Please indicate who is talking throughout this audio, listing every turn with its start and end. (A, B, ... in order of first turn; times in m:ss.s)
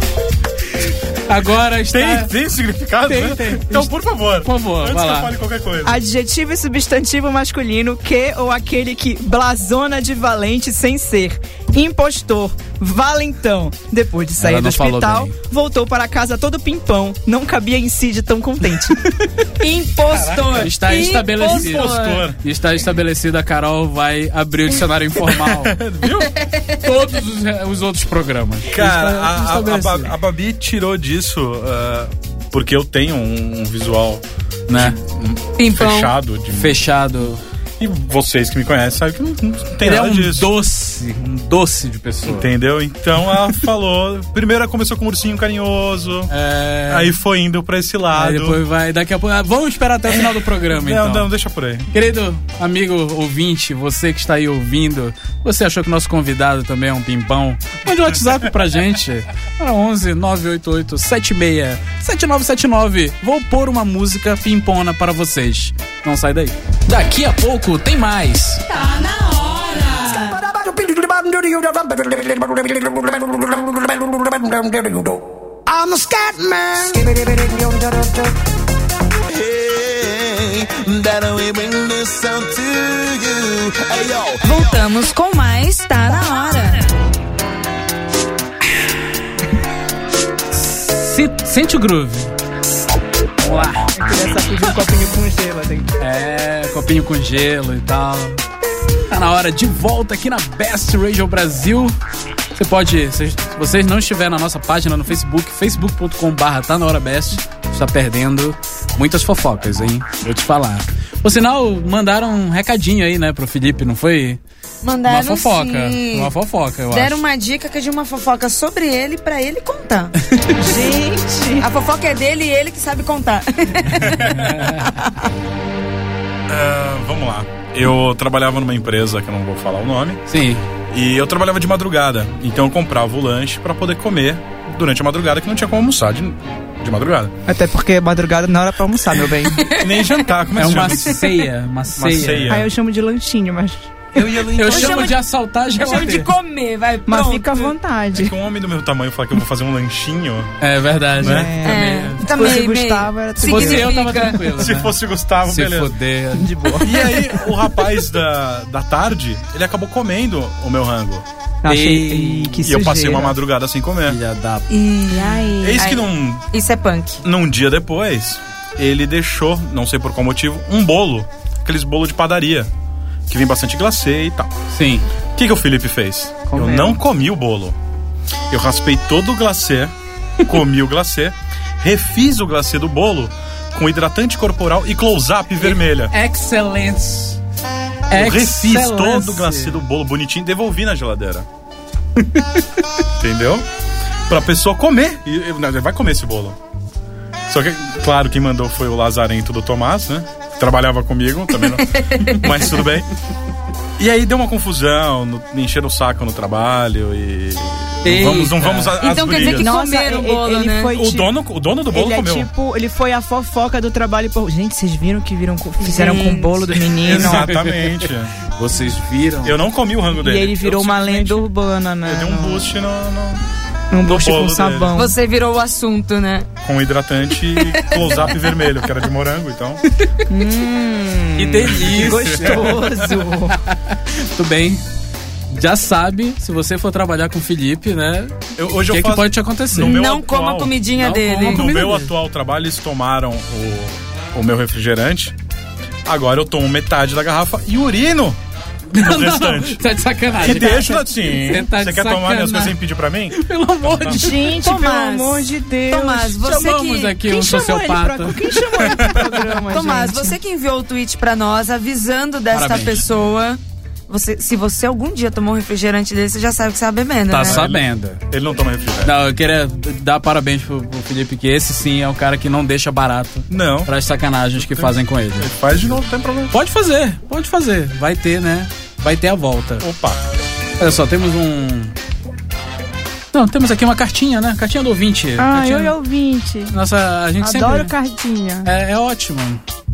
0:01.3-0:02.3 A
0:01.9-0:06.0 B
0:03.1-0:05.3 A
0:05.8-0:19.1 C
0:14.4-0:15.3 A
0:19.6-0:22.2 D
0:20.1-0:20.7 B
0:20.6-0:25.8 A
0:21.4-0:22.4 B
0:25.2-0:26.3 B
0:26.6-0:30.1 A
0:28.7-0:34.2 B
0:34.7-0:35.0 A
0:34.7-0:36.8 B
0:35.6-0:36.1 D
0:36.5-0:37.4 A
0:37.8-0:40.5 B
0:39.8-0:42.5 A
0:42.3-0:46.3 B
0:46.3-0:47.1 A
0:46.9-0:48.6 B
0:48.1-0:51.3 A
0:50.1-0:51.9 B
0:51.9-1:08.6 A
1:08.7-1:10.4 D
1:10.2-1:18.4 E
1:19.3-1:24.8 E
1:24.4-1:27.0 D
1:30.5-1:32.3 A
1:33.4-1:33.9 A
1:33.9-1:35.9 C
1:36.0-1:38.4 A
1:39.1-1:42.0 A
1:42.6-1:54.4 A
1:54.8-1:56.3 D
1:55.1-1:57.2 A
1:56.9-2:00.2 D
2:00.3-2:00.6 A
2:00.6-2:01.7 C
2:01.6-2:04.2 D
2:04.0-2:05.1 A
2:04.0-2:04.8 B
2:06.5-2:10.3 B
2:10.3-2:10.6 A
2:10.9-2:17.4 B
2:17.5-2:19.6 C
2:19.6-2:20.2 D
2:19.7-2:21.3 B
2:20.6-2:22.6 A
2:22.0-2:22.7 B
2:22.5-2:23.9 C
2:24.1-2:25.2 B
2:24.5-2:26.3 A
2:24.6-2:25.2 D
2:25.7-2:27.7 D
2:27.1-2:28.3 C
2:28.1-2:30.5 B
2:30.6-2:32.2 A
2:31.2-2:31.5 B
2:31.2-2:33.9 C
2:31.6-2:34.4 D
2:33.4-2:36.9 A
2:34.5-2:35.9 B
2:36.3-2:37.3 C
2:36.8-2:41.2 B
2:41.6-2:43.4 C
2:41.6-2:42.8 A
2:42.6-2:44.2 B
2:44.1-2:44.7 A
2:44.7-2:47.2 D
2:45.1-2:45.9 C
2:45.6-2:46.5 B
2:47.2-2:52.7 B
2:53.3-2:54.5 B
2:54.7-2:55.1 A
2:55.4-2:57.8 B
2:56.5-2:57.0 C
2:58.5-2:59.9 B
3:00.4-3:06.1 B
3:05.6-3:07.4 A
3:08.1-3:09.8 A
3:08.1-3:11.5 B
3:12.2-3:12.6 A
3:13.2-3:13.7 B
3:14.3-3:16.6 B
3:17.5-3:23.1 B
3:21.8-3:22.5 D
3:24.0-3:29.7 B
3:28.0-3:29.0 A
3:29.0-3:31.0 D
3:29.4-3:31.3 C
3:30.9-3:32.5 B
3:31.9-3:37.5 C
3:35.8-3:36.6 D
3:37.0-3:39.6 A
3:37.0-3:38.3 B
3:39.4-3:41.5 B
3:40.1-3:42.7 C
3:42.0-3:43.4 B
3:43.9-3:45.1 C
3:44.0-3:45.0 B
3:45.0-3:46.5 D
3:46.6-3:49.8 B
3:47.6-3:48.0 D
3:50.3-3:53.6 C
3:51.4-3:54.8 A
3:52.0-3:52.8 B
3:55.5-4:00.0 A
3:58.6-4:00.8 B
3:59.8-4:01.6 D
4:01.0-4:02.1 A
4:01.5-4:05.4 B
4:06.0-4:08.4 B
4:08.9-4:12.8 A
4:09.0-4:09.8 B
4:10.4-4:14.3 B
4:10.4-4:11.0 C
4:13.3-4:14.6 A
4:14.1-4:16.7 C
4:14.5-4:17.2 D
4:16.4-4:19.0 A
4:17.2-4:20.4 C
4:19.0-4:19.3 B
4:19.7-4:27.6 D
4:22.5-4:23.0 A
4:27.3-4:28.2 A
4:27.4-4:29.2 B
4:29.0-4:35.8 A
4:33.5-4:33.9 B
4:34.6-4:36.5 B
4:36.5-4:39.8 A
4:39.8-4:40.2 B
4:40.8-4:42.0 A
4:43.3-4:46.0 A
4:45.4-4:46.7 C
4:46.7-4:47.9 A
4:47.4-4:48.7 C
4:48.6-4:49.6 A